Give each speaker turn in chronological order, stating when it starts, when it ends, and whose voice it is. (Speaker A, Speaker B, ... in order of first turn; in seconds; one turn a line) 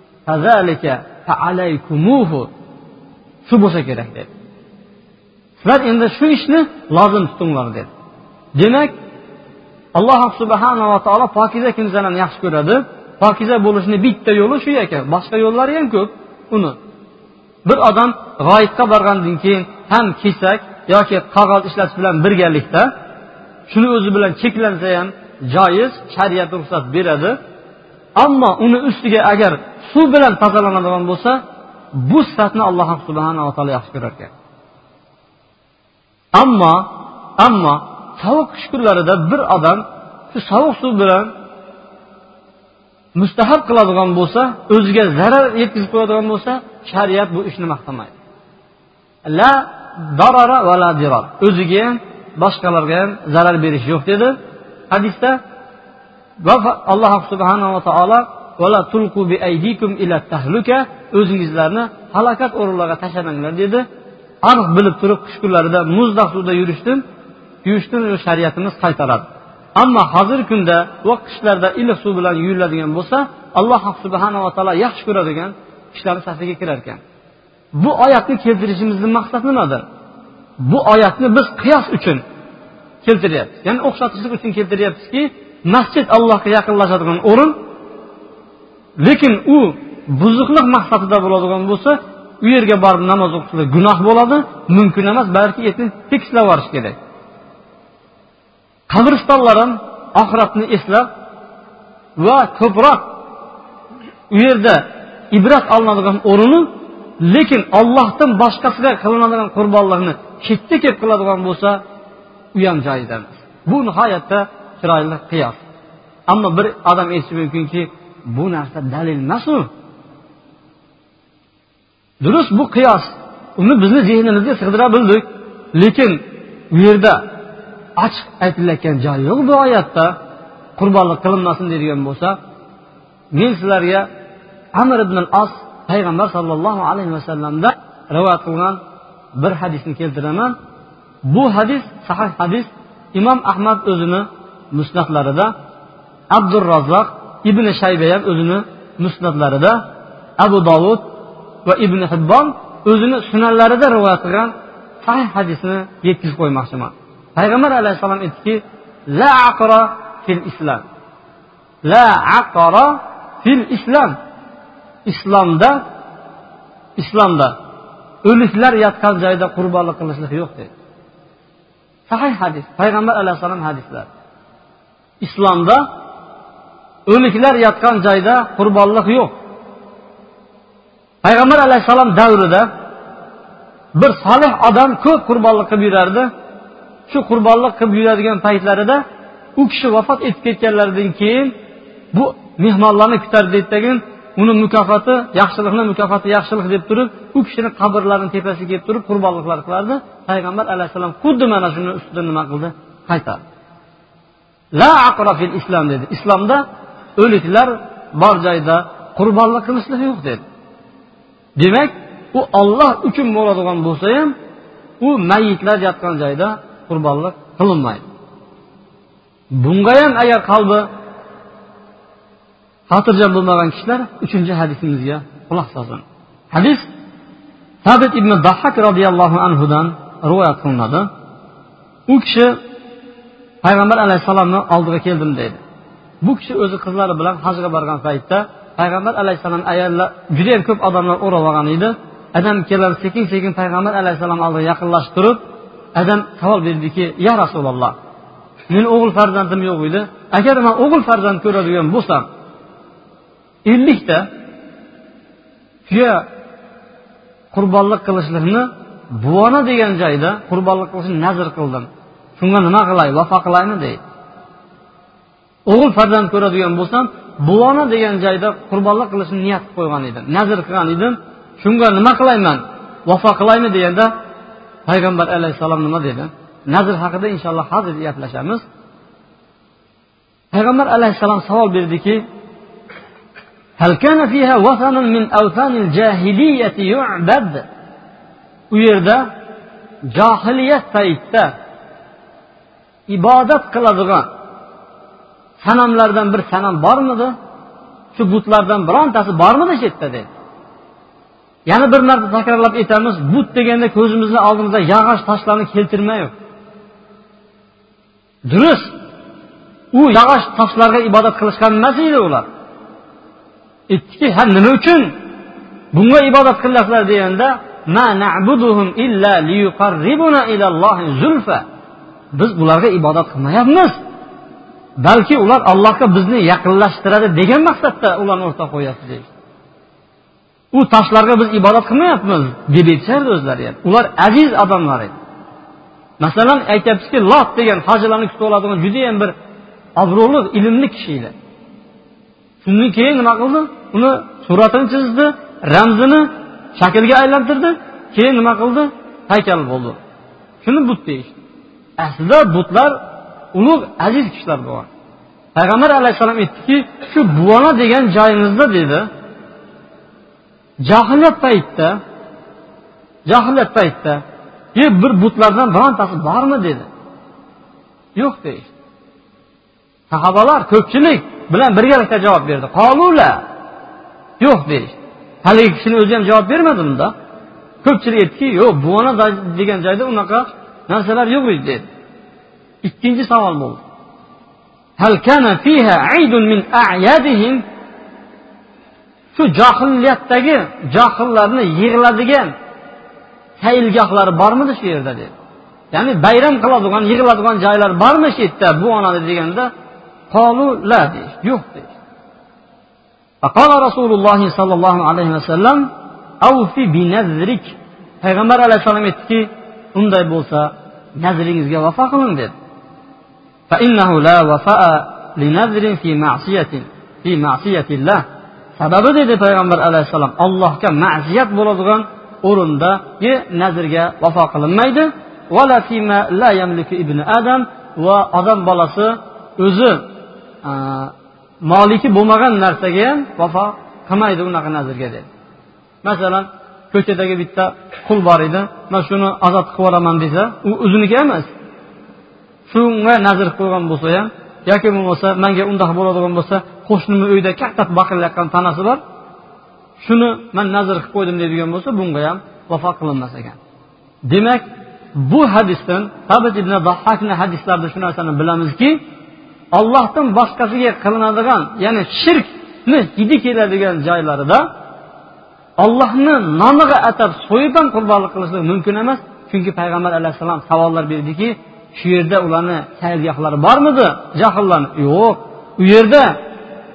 Speaker A: 0.3-2.5
Speaker A: 3.5-4.3
Speaker A: 5.6-7.9
Speaker A: 8.6-8.9
Speaker A: 9.9-16.8
Speaker A: 17.6-22.9
Speaker A: 23.7-27.4
Speaker A: 28.2-31.4
Speaker A: 31.9-34.3
Speaker A: 36.3-41.3
Speaker A: 43.1-48.1
Speaker A: 49.3-54.4
Speaker A: 54.9-55.4
Speaker A: 56.4-63.9
Speaker A: 64.4-67.0
Speaker A: 67.6-77.0
Speaker A: 77.8-79.8
Speaker A: 80.6-82.2
Speaker A: 83.0-87.6
Speaker A: 89.0-97.0
Speaker A: 98.9-101.1
Speaker A: 102.2-103.2
Speaker A: 104.3-111.8
Speaker A: 112.5-115.6
Speaker A: 116.3-119.7
Speaker A: 122.2-127.3
Speaker A: 128.0-130.1
Speaker A: 130.8-132.4
Speaker A: 133.3-134.1
Speaker A: 134.8-138.8
Speaker A: 139.4-140.6
Speaker A: 141.3-145.5
Speaker A: 146.3-149.8
Speaker A: 150.4-151.1
Speaker A: 151.7-160.9
Speaker A: 161.8-164.2
Speaker A: 165.1-165.8
Speaker A: 167.0-167.6
Speaker A: 168.2-170.7
Speaker A: 172.1-174.1
Speaker A: 175.2-175.8
Speaker A: 177.1-179.3
Speaker A: 181.2-182.7
Speaker A: 183.9-186.3
Speaker A: 187.1-189.0
Speaker A: 189.6-191.5
Speaker A: 192.1-203.4
Speaker A: 204.8-206.6
Speaker A: 207.2-210.4
Speaker A: 211.6-214.3
Speaker A: 215.0-218.1
Speaker A: 219.6-220.9
Speaker A: 222.9-226.8
Speaker A: 227.8-231.1
Speaker A: 232.1-232.6
Speaker A: 233.6-235.6
Speaker A: 236.2-245.4
Speaker A: 245.9-247.9
Speaker A: 248.7-252.3
Speaker A: 253.7-254.3
Speaker A: 255.9-256.3
Speaker A: 257.5-264.0
Speaker A: 265.7-274.1
Speaker A: 274.9-278.6
Speaker A: 280.5-282.2
Speaker A: 283.8-287.7
Speaker A: 288.7-289.3
Speaker A: 290.1-291.5
Speaker A: 293.1-294.3
Speaker A: 295.6-297.4
Speaker A: 298.1-300.3
Speaker A: 301.7-306.3
Speaker A: 308.5-308.9
Speaker A: 309.9-312.5
Speaker A: 313.9-315.2
Speaker A: 315.9-321.6
Speaker A: 322.3-324.0
Speaker A: 325.0-329.3
Speaker A: 330.7-335.1
Speaker A: 336.2-339.4
Speaker A: 340.0-341.3
Speaker A: 342.6-350.0
Speaker A: 350.6-351.4
Speaker A: 352.0-353.0
Speaker A: 353.5-354.9
Speaker A: 355.6-359.1
Speaker A: 360.8-362.0
Speaker A: 363.3-364.2
Speaker A: 364.8-366.9
Speaker A: 368.2-368.7
Speaker A: 370.1-373.4
Speaker A: 374.4-377.1
Speaker A: 377.8-381.9
Speaker A: 382.8-383.8
Speaker A: 385.0-387.6
Speaker A: 389.4-392.5
Speaker A: 393.6-395.3
Speaker A: 395.9-399.7
Speaker A: 400.3-401.9
Speaker A: 403.4-405.9
Speaker A: 406.4-412.5
Speaker A: 413.7-418.2
Speaker A: 418.8-430.1
Speaker A: 430.6-435.3
Speaker A: 436.0-441.5
Speaker A: 442.7-449.0
Speaker A: 450.0-453.6
Speaker A: 454.3-459.0
Speaker A: 459.7-464.7
Speaker A: 465.8-476.4